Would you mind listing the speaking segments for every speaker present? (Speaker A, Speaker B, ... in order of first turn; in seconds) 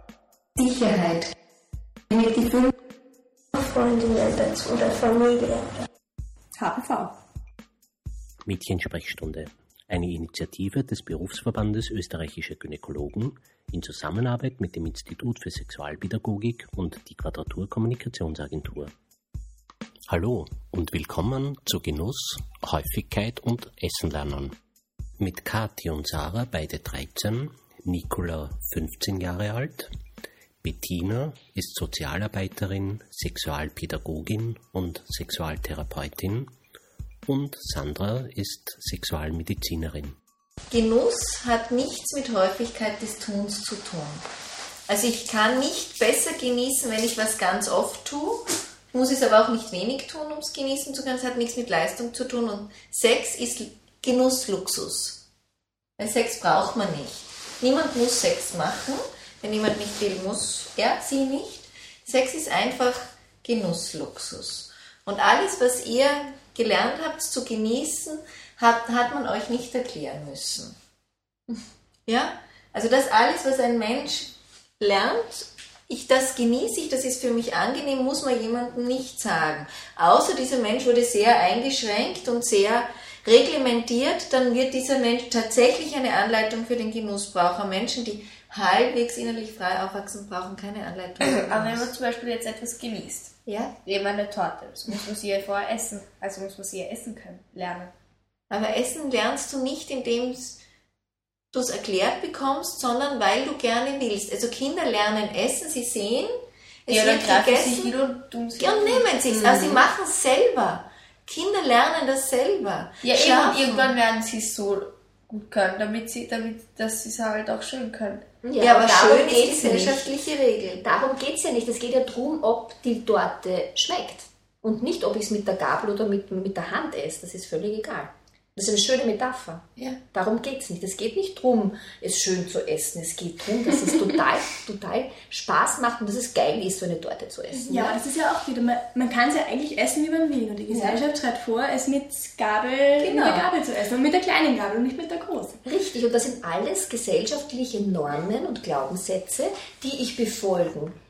Speaker A: 0.6-1.3, 2.1-2.7, 40.7-44.2, 44.9-55.2, 56.0-70.8, 72.1-91.9, 93.5-93.7, 98.5-100.6, 101.5-106.3, 106.9-107.9, 108.6-114.0, 118.6-120.8
Speaker B: 3.5-5.8
Speaker C: 6.6-7.1, 137.5-145.6
Speaker D: 8.4-18.9, 20.1-24.6, 25.2-29.9, 30.6-36.5, 37.3-40.2
Speaker E: 91.2-97.9, 106.9-109.8, 113.0-118.3
Speaker F: 109.3-109.8, 118.4-120.1, 120.8-138.0, 145.6-150.9